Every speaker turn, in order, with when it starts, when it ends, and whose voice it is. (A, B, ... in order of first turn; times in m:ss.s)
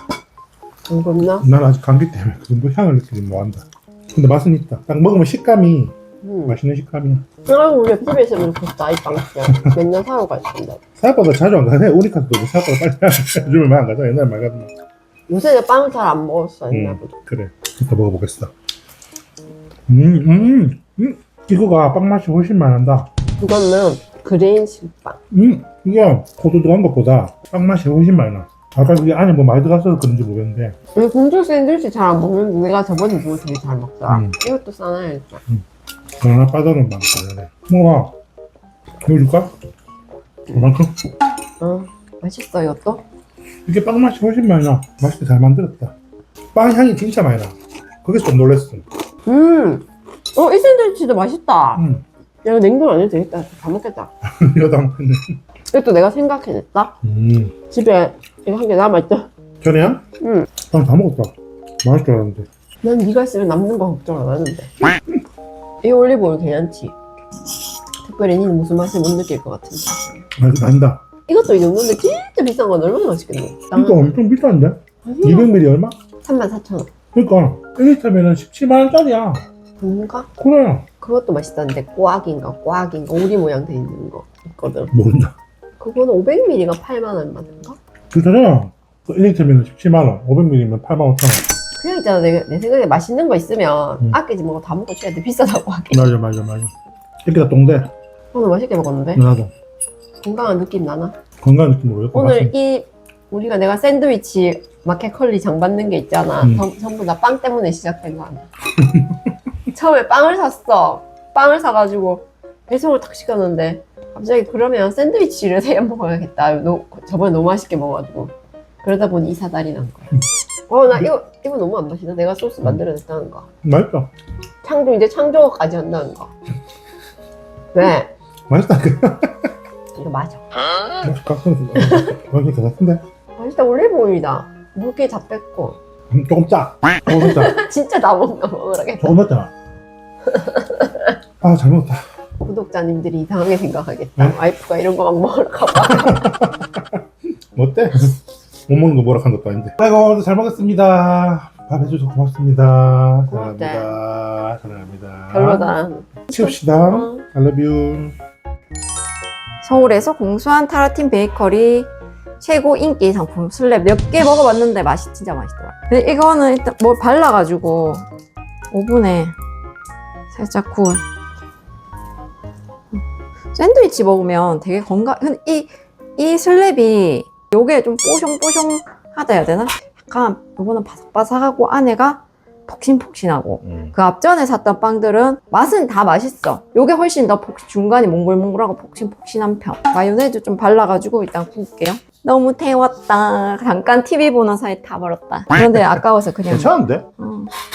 0:00.9-0:01.4 A
0:01.4-0:06.0 B
0:06.2-0:06.6 A
0:06.5-0:07.3 B
0:07.5-0:10.8 A
0:09.4-0:09.8 B
0:11.0-0:14.7 B
0:15.3-0:17.1 A
0:16.7-0:18.5 B
0:19.9-0:23.1 B
0:23.4-0:25.2 A
0:25.3-0:30.8 B
0:31.0-0:35.4 A
0:34.1-0:34.4 B
0:36.2-0:38.1 B
0:39.0-0:39.5 B
0:40.5-0:41.0 B
0:41.6-0:43.0 A
0:43.6-0:46.0 B
0:46.5-0:48.9 B
0:49.3-0:49.8 A
0:50.4-0:51.8 A
0:51.8-0:52.0 B
0:52.4-0:54.1 A
0:54.2-0:55.4 B
0:55.7-0:56.9 A
0:57.0-0:57.6 B
0:57.7-0:59.3 A
0:59.6-1:00.0 B
1:00.2-1:00.5 A
1:00.6-1:02.5 B
1:02.8-1:04.7 A
1:05.8-1:06.9 A
1:08.0-1:10.2 A
1:10.4-1:11.0 B
1:11.3-1:14.1 A
1:13.7-1:16.0 B
1:15.0-1:15.5 A
1:16.2-1:16.9 A
1:17.1-1:19.4 B
1:19.8-1:20.3 A
1:20.4-1:20.9 B
1:21.0-1:24.9 A
1:24.9-1:25.4 B
1:25.8-1:27.8 A
1:28.1-1:31.4 B
1:31.8-1:36.1 A
1:35.9-1:36.7 B
1:37.2-1:37.9 B
1:38.3-1:39.2 A
1:39.1-1:39.5 B
1:40.2-1:41.1 A
1:41.4-1:42.5 B
1:42.1-1:48.5 A
1:46.4-1:46.6 B
1:48.8-1:49.1 B
1:49.7-1:58.3 A
1:58.8-2:00.1 A
2:00.7-2:03.4 A
2:03.6-2:04.1 B
2:04.6-2:06.3 A
2:07.7-2:08.1 A
2:08.5-2:09.5 B
2:10.0-2:10.4 A
2:11.0-2:13.0 B
2:13.4-2:15.8 A
2:16.1-2:17.6 B
2:17.1-2:19.2 A
2:19.0-2:19.5 B
2:20.4-2:20.8 A
2:21.4-2:22.0 B
2:22.4-2:26.3 A
2:25.8-2:27.0 B
2:27.5-2:38.2 B
2:33.3-2:33.9 A
2:35.3-2:37.2 A
2:39.6-2:41.9 C
2:42.4-2:48.1 C
2:48.7-2:49.4 C
2:50.3-2:51.0 C
2:53.5-3:17.5 C
3:03.6-3:04.0 B
3:16.5-3:17.1 B